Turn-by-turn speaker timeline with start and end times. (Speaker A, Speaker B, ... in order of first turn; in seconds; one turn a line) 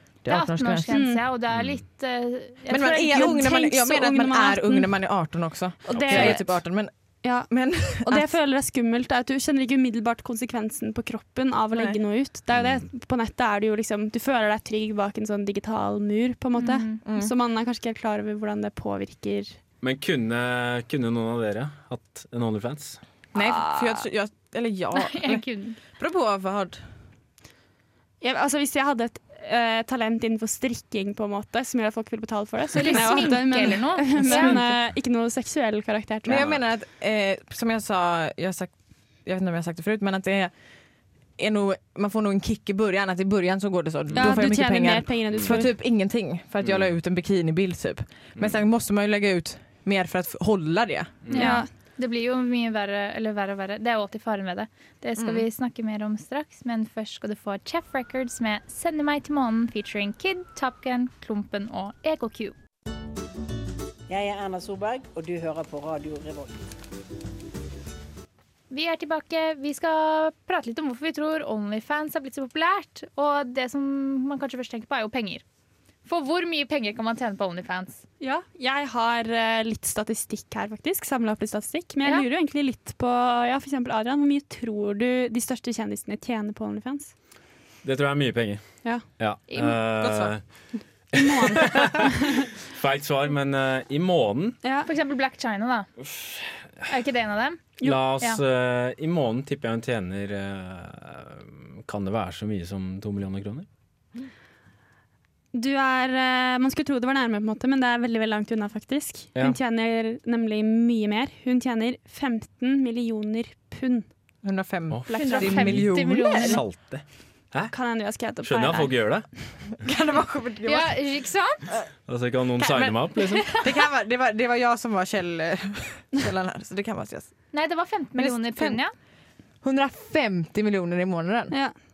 Speaker A: 0.2-0.9
Speaker B: 0.3-3.5
Speaker C: 0.9-1.2
Speaker D: 1.5-1.8
Speaker A: 2.7-8.3
Speaker C: 3.1-4.9
Speaker C: 5.8-6.5
Speaker D: 5.9-6.4
Speaker C: 7.2-19.6
Speaker D: 12.5-12.8
Speaker B: 16.6-17.0
Speaker A: 17.0-17.3
Speaker D: 19.8-23.0
Speaker A: 23.3-25.4
Speaker C: 23.4-23.9
Speaker B: 24.9-25.8
Speaker A: 26.0-26.8
Speaker C: 28.2-36.5
Speaker B: 32.8-34.6
Speaker A: 34.2-34.6
Speaker A: 36.2-38.7
Speaker D: 36.3-36.6
Speaker A: 39.2-40.5
Speaker A: 41.4-51.2
Speaker D: 44.1-44.4
Speaker C: 44.1-45.7
Speaker D: 45.3-45.6
Speaker D: 46.6-46.9
Speaker D: 48.4-48.6
Speaker D: 51.2-51.5
Speaker B: 51.3-62.5
Speaker C: 51.3-51.6
Speaker A: 55.2-55.4
Speaker E: 64.1-66.6
Speaker B: 68.7-75.4
Speaker B: 76.0-78.0
Speaker C: 78.2-87.1
Speaker D: 87.8-90.4
Speaker B: 89.5-89.8
Speaker A: 90.0-90.3
Speaker D: 91.1-92.1
Speaker C: 91.1-92.3
Speaker D: 92.7-94.6
Speaker C: 94.6-94.9
Speaker B: 94.8-95.9
Speaker D: 96.0-96.5
Speaker B: 96.9-98.4
Speaker D: 97.8-103.7
Speaker C: 105.5-114.0
Speaker A: 114.4-116.6
Speaker D: 114.9-117.7
Speaker C: 115.1-115.5
Speaker B: 115.1-116.6
Speaker C: 117.7-118.9
Speaker D: 118.4-119.3
Speaker A: 119.8-120.9
Speaker B: 120.6-121.6
Speaker D: 122.1-123.6
Speaker A: 122.6-122.9
Speaker B: 123.1-123.6
Speaker A: 123.6-127.3
Speaker B: 127.5-128.9
Speaker A: 128.2-128.8
Speaker A: 129.6-131.6